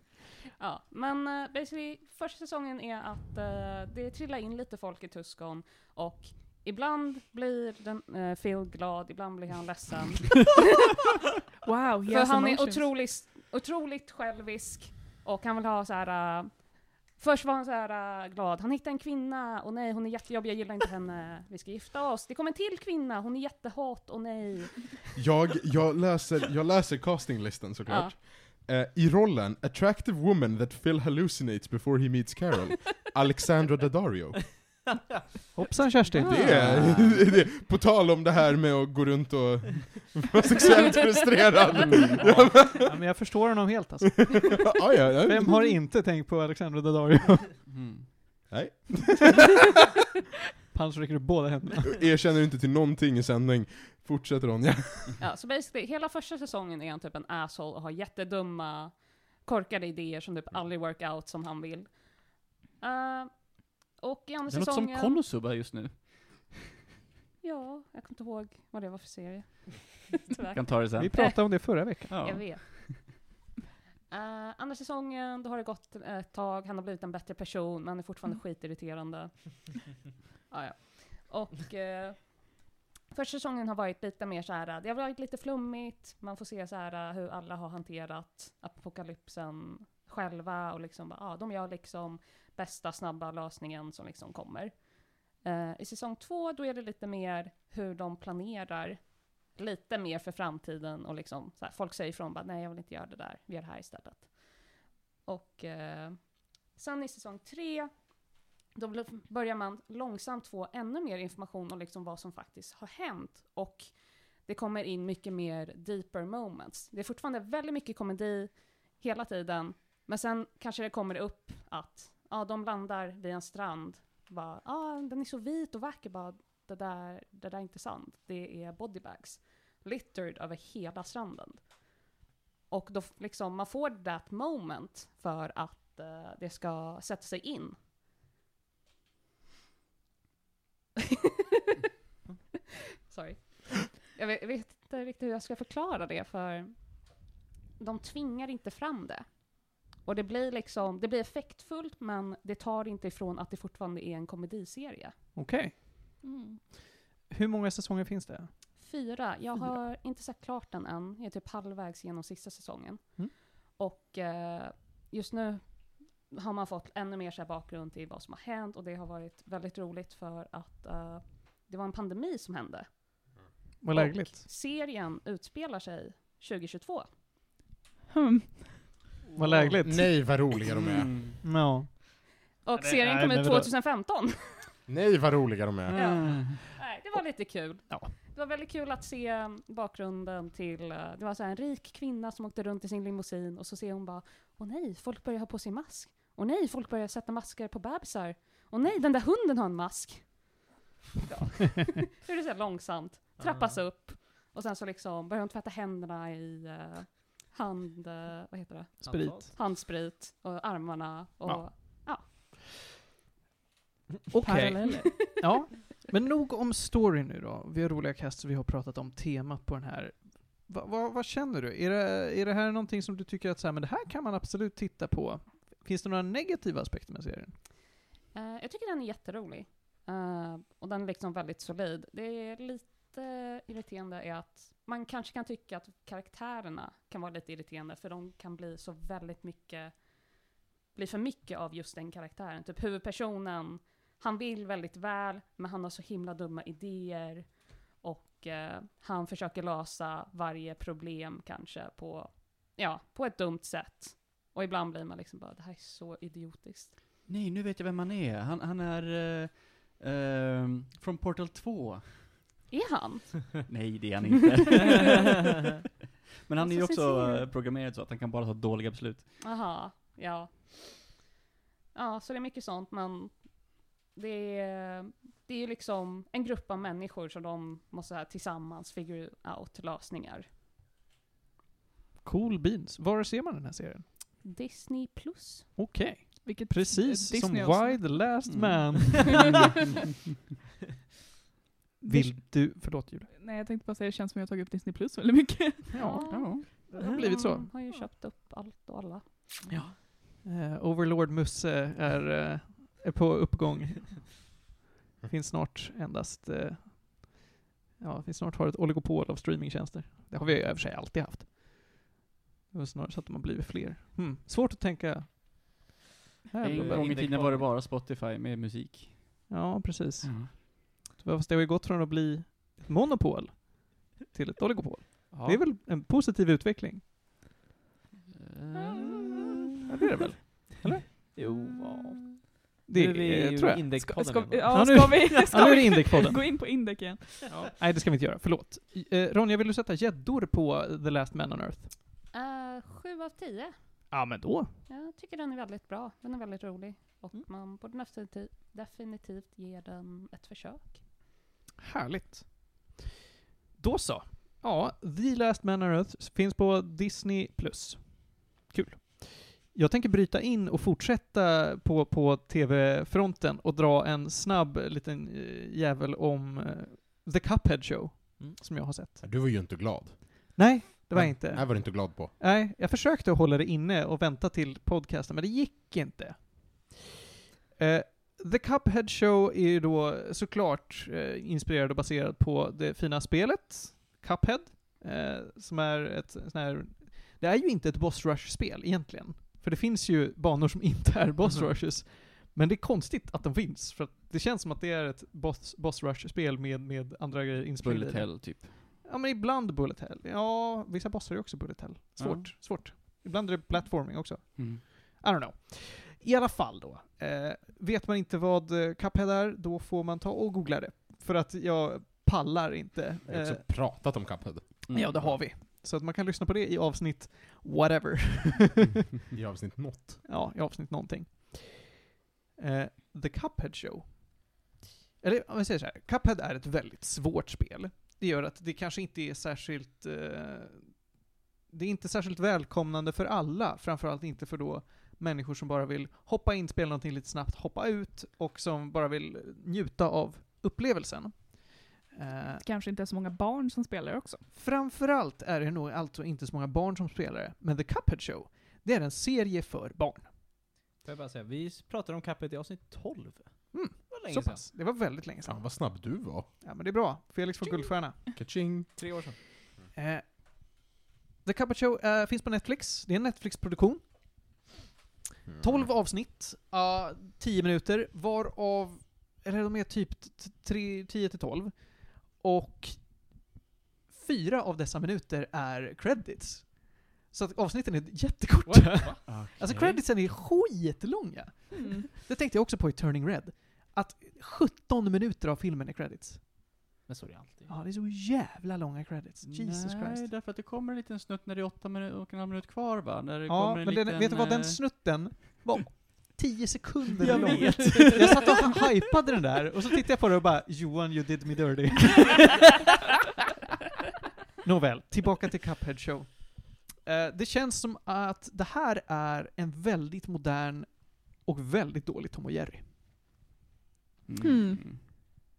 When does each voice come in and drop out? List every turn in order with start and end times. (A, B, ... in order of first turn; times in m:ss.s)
0:00.6-0:10.6 A
0:11.6-0:12.9 B
0:12.1-0:25.2 A
0:25.2-0:34.8 C
0:27.9-0:28.2 A
0:35.6-0:36.4 D
0:36.1-0:36.8 A
0:36.2-0:43.0 C
0:36.5-0:37.2 E
0:41.9-0:42.2 E
0:42.2-0:44.6 D
0:44.6-0:45.6 C
0:45.2-0:47.7 D
0:47.7-0:48.1 E
0:48.5-0:49.4 C
0:50.7-0:52.0 D
0:51.9-0:55.2 C
0:55.2-1:05.2 A
1:04.5-1:06.6 E
1:07.4-1:13.1 A
1:10.5-1:13.1 E
1:11.0-1:12.1 D
1:14.1-1:19.9 A
1:20.5-1:44.6 A
1:45.2-1:48.0 A
1:48.8-2:11.7 A
2:12.7-2:17.8 A
2:23.0-2:27.3 A
2:27.8-2:35.1 A
2:35.4-2:36.0 D
2:36.2-2:36.6 B
2:37.3-2:38.6 D
2:38.8-2:53.3 A
2:53.8-2:54.5 D
2:53.9-2:57.1 A
2:58.1-2:58.8 B
2:59.3-2:59.8 F
2:59.4-3:00.4 D
2:59.8-3:01.2 C
3:00.7-3:01.4 E
3:01.4-3:02.1 D
3:02.6-3:04.8 A
3:02.9-3:03.7 D
3:04.9-3:06.2 C
3:05.9-3:06.6 E
3:05.9-3:20.6 A
3:07.6-3:08.1 D
3:21.2-3:32.3 A
3:23.4-3:23.8 F
3:29.0-3:29.6 F
3:29.1-3:29.5 D
3:31.4-3:32.4 D
3:34.3-3:47.6 D
3:34.4-3:35.1 B
3:35.1-3:35.5 A
3:48.3-4:00.4 A
4:00.9-4:17.0 A
4:17.3-4:22.5 E
4:22.7-4:23.3 A
4:23.6-4:25.3 E
4:24.8-4:25.2 A
4:26.5-4:29.4 E
4:26.6-4:27.4 A
4:29.4-4:31.2 A
4:31.9-4:40.5 A
4:42.2-4:44.1 D
4:44.4-4:45.8 A
4:45.8-4:49.5 D
4:46.4-4:48.3 B
4:48.5-4:49.3 E
4:52.0-4:52.5 B
4:52.0-4:53.3 D
4:53.3-4:56.0 B
4:55.9-4:57.7 D
4:56.0-4:59.6 A
4:56.2-4:56.7 E
4:59.7-5:00.0 E
5:00.4-5:04.5 D
5:05.3-5:12.1 D
5:12.7-5:15.8 D
5:16.5-5:17.5 D
5:16.6-5:19.4 E
5:16.7-5:17.6 F
5:19.5-5:27.0 D
5:20.2-5:20.5 E
5:25.3-5:25.6 F
5:28.4-5:29.4 E
5:28.8-5:29.3 F
5:29.9-5:31.4 D
5:31.1-5:35.9 F
5:32.9-5:34.1 D
5:34.0-5:37.5 B
5:34.7-5:36.5 D
5:37.5-5:37.7 F
5:37.6-5:41.9 D
5:42.3-5:43.8 A
5:44.1-5:44.8 D
5:44.9-5:51.0 A
5:51.8-5:53.0 D
5:53.8-6:09.2 D
6:09.2-6:12.3 C
6:10.6-6:17.0 D
6:17.8-6:54.1 D
6:37.8-6:38.7 E
6:42.2-6:42.5 E
6:44.6-6:44.8 E
6:53.3-6:55.4 C
6:54.9-6:55.2 E
6:54.9-6:58.9 D
6:59.3-7:00.2 C
7:00.2-7:04.6 D
7:05.2-7:11.1 D
7:11.7-7:22.6 D
7:22.6-7:24.4 B
7:24.5-7:30.3 D
7:31.0-7:34.6 F
7:33.7-7:38.2 D
7:35.4-7:36.5 C
7:38.4-7:39.0 C
7:39.0-7:39.4 F
7:39.9-7:40.8 D
7:41.4-7:44.4 D
7:45.5-7:45.9 C
7:45.6-7:53.5 D
7:54.1-8:06.5 D
7:58.6-7:59.2 F
7:59.3-8:00.3 E
8:01.7-8:02.1 B
8:07.1-8:07.7 F
8:07.7-8:10.3 D
8:09.5-8:14.8 E
8:13.5-8:22.6 D
8:17.2-8:18.5 E
8:17.8-8:18.2 F
8:24.6-8:32.9 D
8:34.3-8:35.0 E
8:34.4-8:34.8 B